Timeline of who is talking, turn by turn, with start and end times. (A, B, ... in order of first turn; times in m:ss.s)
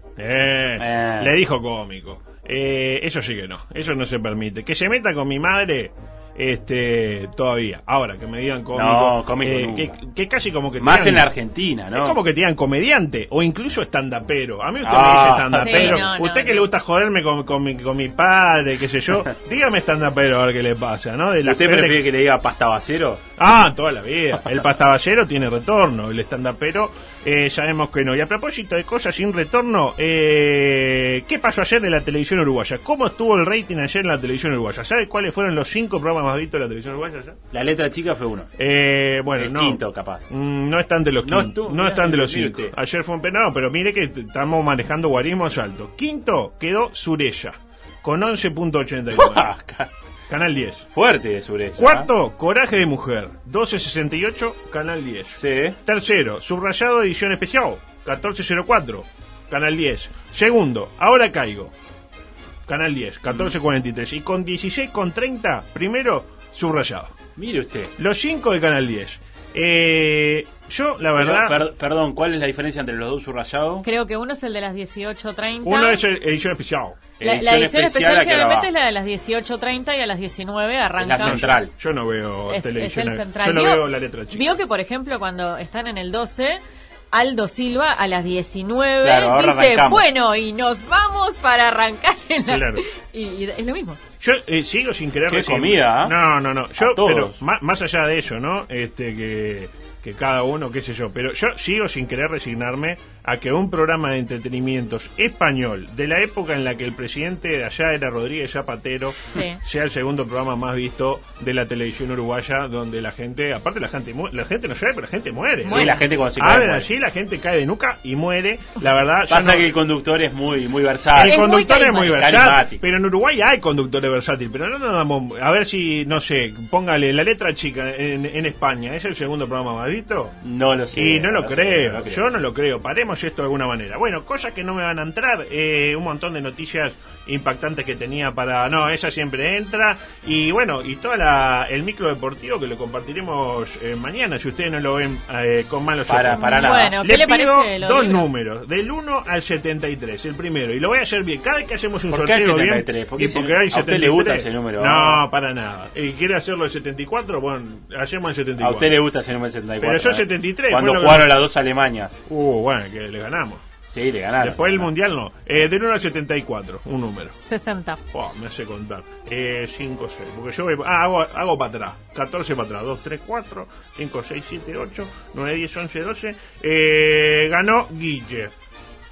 0:00.2-0:11.3 A
0:00.8-0:01.3 B
0:08.7-0:10.0 B
0:10.8-0:12.2 B
0:11.9-0:22.0 A
0:14.8-0:16.1 B
0:15.6-0:16.7 C
0:21.4-0:23.2 B
0:23.4-0:37.4 A
0:37.5-0:38.5 B
0:38.6-0:49.5 A
0:39.4-0:40.3 B
0:41.2-0:42.7 B
0:49.1-0:49.9 B
0:50.3-0:50.8 A
0:50.9-0:52.1 B
0:51.8-1:01.7 A
0:55.4-0:55.8 B
1:02.7-1:07.1 A
1:03.3-1:03.5 B
1:07.4-1:07.9 B
1:08.0-1:11.6 A
1:11.1-1:13.8 B
1:13.8-1:16.0 C
1:15.6-1:17.0 A
1:17.2-1:18.7 B
1:17.2-1:21.6 C
1:21.0-1:21.7 B
1:21.2-1:24.5 A
1:22.5-1:26.6 C
1:27.1-1:34.0 C
1:29.0-1:30.1 B
1:32.5-1:32.8 A
1:34.2-1:59.7 A
1:35.2-1:36.2 B
1:36.8-1:37.4 B
1:49.3-1:49.6 C
1:55.6-1:56.0 C
1:55.6-1:56.9 B
1:59.3-2:01.4 B
2:01.1-2:10.3 A
2:01.2-2:02.1 C
2:02.0-2:02.8 B
2:10.4-2:12.4 B
2:10.9-2:39.0 A
2:26.1-2:27.0 B
2:26.4-2:28.3 C
2:32.1-2:35.2 B
2:38.6-2:42.2 B
2:39.8-2:41.4 A
2:42.3-2:43.6 A
2:43.9-2:44.9 B
2:44.4-2:47.3 A
2:47.4-2:48.0 C
2:48.1-2:58.5 A